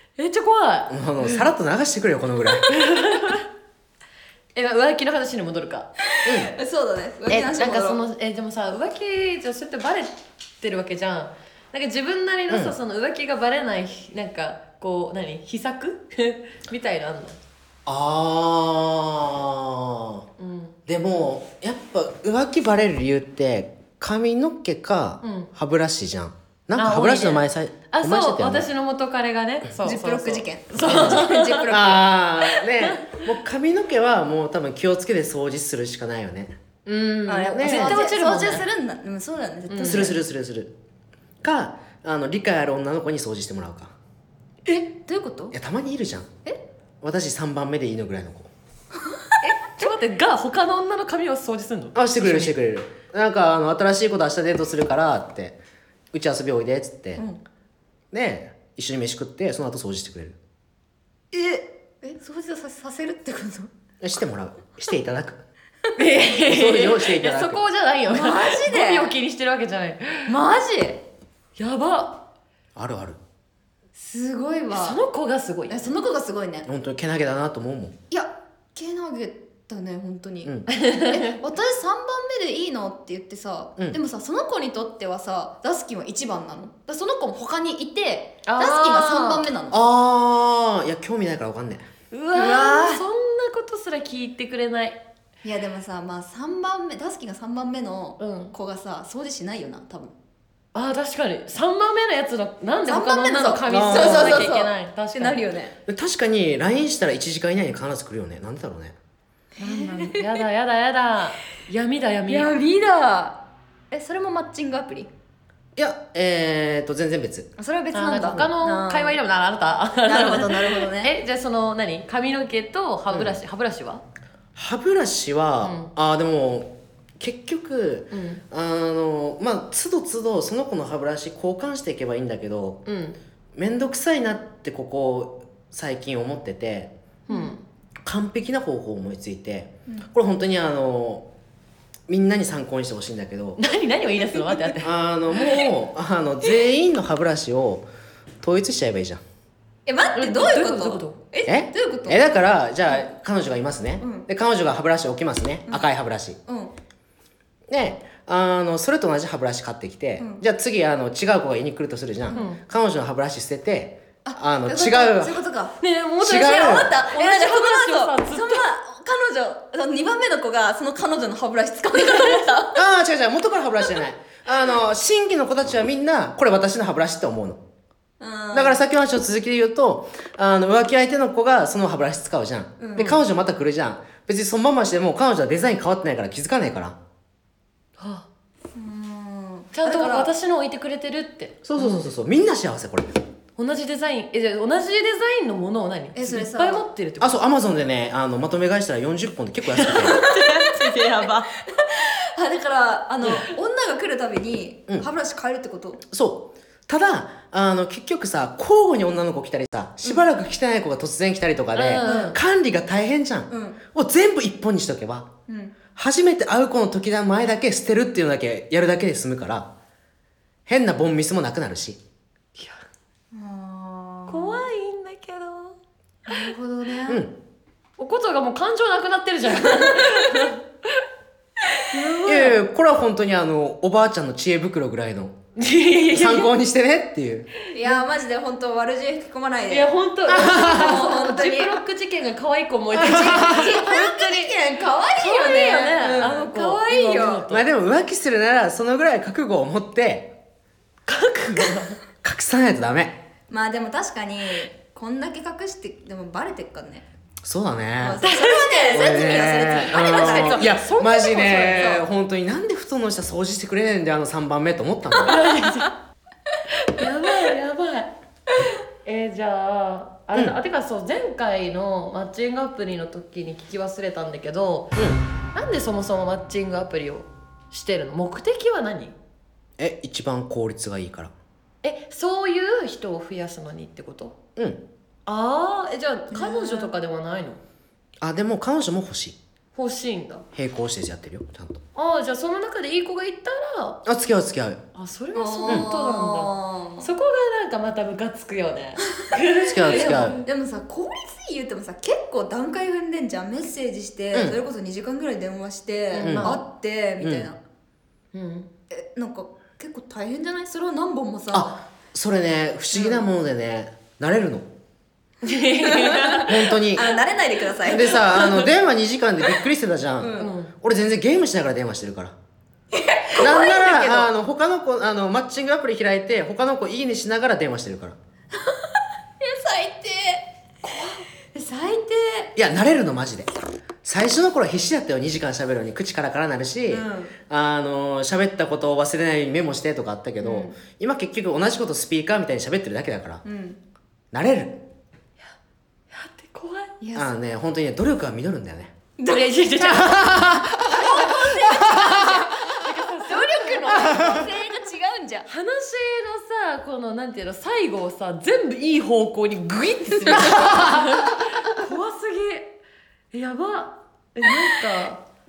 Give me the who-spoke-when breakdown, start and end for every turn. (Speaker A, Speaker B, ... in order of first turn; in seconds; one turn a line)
Speaker A: 0.2-1.4
Speaker B: 0.9-2.7
Speaker A: 2.7-3.5
Speaker A: 4.5-5.9
Speaker C: 6.1-8.0
Speaker B: 6.2-6.5
Speaker A: 7.3-17.4
Speaker B: 12.5-12.7
Speaker B: 17.9-20.2
Speaker A: 20.4-20.8
Speaker B: 20.9-28.6
Speaker A: 25.2-25.5
Speaker A: 26.8-31.9
Speaker C: 29.8-32.1
Speaker B: 30.9-36.6
Speaker A: 32.5-33.2
Speaker A: 36.9-38.6
Speaker C: 37.3-40.2
Speaker B: 37.5-38.0
Speaker A: 39.7-40.1
Speaker B: 39.8-40.7
Speaker B: 41.4-43.9
Speaker C: 44.9-45.5
Speaker B: 45.5-46.3
Speaker B: 47.0-48.5
Speaker C: 49.4-49.9
Speaker A: 49.7-52.5
Speaker B: 51.9-55.6
Speaker B: 56.1-57.2
Speaker B: 58.1-60.4
Speaker C: 61.3-63.7
Speaker B: 64.0-65.4
Speaker A: 66.0-70.3
Speaker B: 66.4-67.6
Speaker C: 68.1-69.1
Speaker C: 70.3-71.0
Speaker A: 71.6-72.2
Speaker B: 72.8-73.2
Speaker C: 73.9-75.0
Speaker A: 74.7-75.9
Speaker C: 75.7-76.7
Speaker B: 76.7-77.9
Speaker C: 78.1-89.8
Speaker A: 80.7-81.4
Speaker A: 88.5-89.4
Speaker B: 89.7-91.9
Speaker A: 92.1-95.0
Speaker C: 92.3-93.0
Speaker C: 95.4-100.1
Speaker A: 98.2-98.5
Speaker A: 100.7-105.4
Speaker C: 102.9-105.8
Speaker B: 103.7-104.5
Speaker B: 105.9-109.0
Speaker C: 109.6-110.4
Speaker A: 109.6-112.5
Speaker C: 112.3-113.4
Speaker C: 113.9-115.1
Speaker B: 115.8-117.5
Speaker C: 117.6-119.2
Speaker A: 117.9-124.0
Speaker C: 120.0-121.1
Speaker B: 123.1-123.3
Speaker B: 124.5-132.8
Speaker A: 125.6-125.9
Speaker A: 128.1-128.4
Speaker A: 132.8-133.2
Speaker B: 133.5-136.9
Speaker A: 137.3-137.6
Speaker C: 137.3-137.6
Speaker B: 138.0-141.3
Speaker B: 142.1-143.6
Speaker A: 143.6-144.9
Speaker B: 144.8-147.9
Speaker B: 148.4-149.2
Speaker C: 149.8-152.3
Speaker A: 150.1-151.2
Speaker B: 151.4-156.4
Speaker C: 154.0-154.3
Speaker C: 156.5-156.7
Speaker B: 157.7-165.4
Speaker C: 160.2-160.4
Speaker A: 162.3-162.6
Speaker C: 164.2-165.8
Speaker A: 165.8-168.6
Speaker B: 166.2-166.9
Speaker C: 166.3-172.8
Speaker B: 172.7-177.6
Speaker C: 178.2-178.8
Speaker B: 178.5-187.0
Speaker C: 182.8-183.2
Speaker A: 188.0-188.3
Speaker C: 188.7-190.3
Speaker A: 189.7-192.0
Speaker B: 191.6-193.1
Speaker A: 193.6-197.4
Speaker C: 196.1-196.8
Speaker B: 197.2-200.2
Speaker A: 199.7-201.5
Speaker C: 200.0-206.0
Speaker B: 206.1-215.3
Speaker A: 211.7-212.4
Speaker C: 212.0-212.3
Speaker C: 213.5-213.8
Speaker C: 215.5-215.8
Speaker B: 215.9-219.7
Speaker B: 220.7-222.0
Speaker C: 223.3-224.7
Speaker A: 224.3-225.8
Speaker C: 226.3-227.2
Speaker B: 227.1-227.3
Speaker A: 228.0-231.0
Speaker C: 229.6-230.4
Speaker C: 231.9-232.5
Speaker A: 231.9-232.5
Speaker B: 232.2-235.3
Speaker A: 235.6-236.5
Speaker B: 236.1-237.5
Speaker C: 237.7-241.8
Speaker A: 239.7-244.6
Speaker B: 240.3-241.0
Speaker B: 242.9-243.7
Speaker C: 242.9-247.5
Speaker A: 245.2-247.7
Speaker B: 247.5-250.3
Speaker A: 251.1-252.0
Speaker B: 252.2-253.2
Speaker C: 253.5-257.0
Speaker B: 257.4-258.2
Speaker C: 258.0-262.0
Speaker A: 258.2-261.9
Speaker B: 258.9-265.4
Speaker A: 265.2-265.9
Speaker A: 266.7-268.1
Speaker A: 269.0-274.9
Speaker A: 275.5-279.1
Speaker B: 279.8-281.3
Speaker A: 281.8-284.4
Speaker B: 284.6-284.8
Speaker A: 285.2-287.6
Speaker C: 286.3-286.9
Speaker B: 288.2-289.4
Speaker A: 289.7-290.4
Speaker B: 290.5-291.8
Speaker A: 291.9-294.0
Speaker B: 294.0-294.8
Speaker A: 294.9-300.4
Speaker C: 295.3-297.1
Speaker B: 299.6-300.4
Speaker C: 299.8-307.6
Speaker B: 304.3-304.6
Speaker A: 306.1-306.6
Speaker B: 306.2-306.6
Speaker B: 307.2-307.5
Speaker A: 308.3-308.7
Speaker C: 308.9-311.7
Speaker B: 311.5-314.7
Speaker C: 312.9-313.2
Speaker A: 315.4-316.5
Speaker C: 315.8-318.6
Speaker B: 316.4-317.1
Speaker B: 317.8-322.4
Speaker A: 318.1-318.6
Speaker C: 320.2-320.5
Speaker A: 320.4-320.7
Speaker C: 322.9-324.3
Speaker B: 323.4-328.1
Speaker C: 329.4-330.5
Speaker A: 330.8-331.2
Speaker C: 331.5-332.5
Speaker B: 332.6-333.5
Speaker B: 334.0-343.4
Speaker C: 336.9-337.3
Speaker C: 340.4-340.7
Speaker C: 343.4-343.8
Speaker B: 344.3-344.8
Speaker A: 346.1-346.9
Speaker C: 347.0-347.3
Speaker B: 347.1-348.9
Speaker C: 349.2-355.5
Speaker A: 349.6-350.1
Speaker B: 349.8-350.9
Speaker A: 350.8-354.6
Speaker B: 351.8-352.0
Speaker A: 355.5-362.8
Speaker C: 360.3-360.8
Speaker A: 363.3-365.2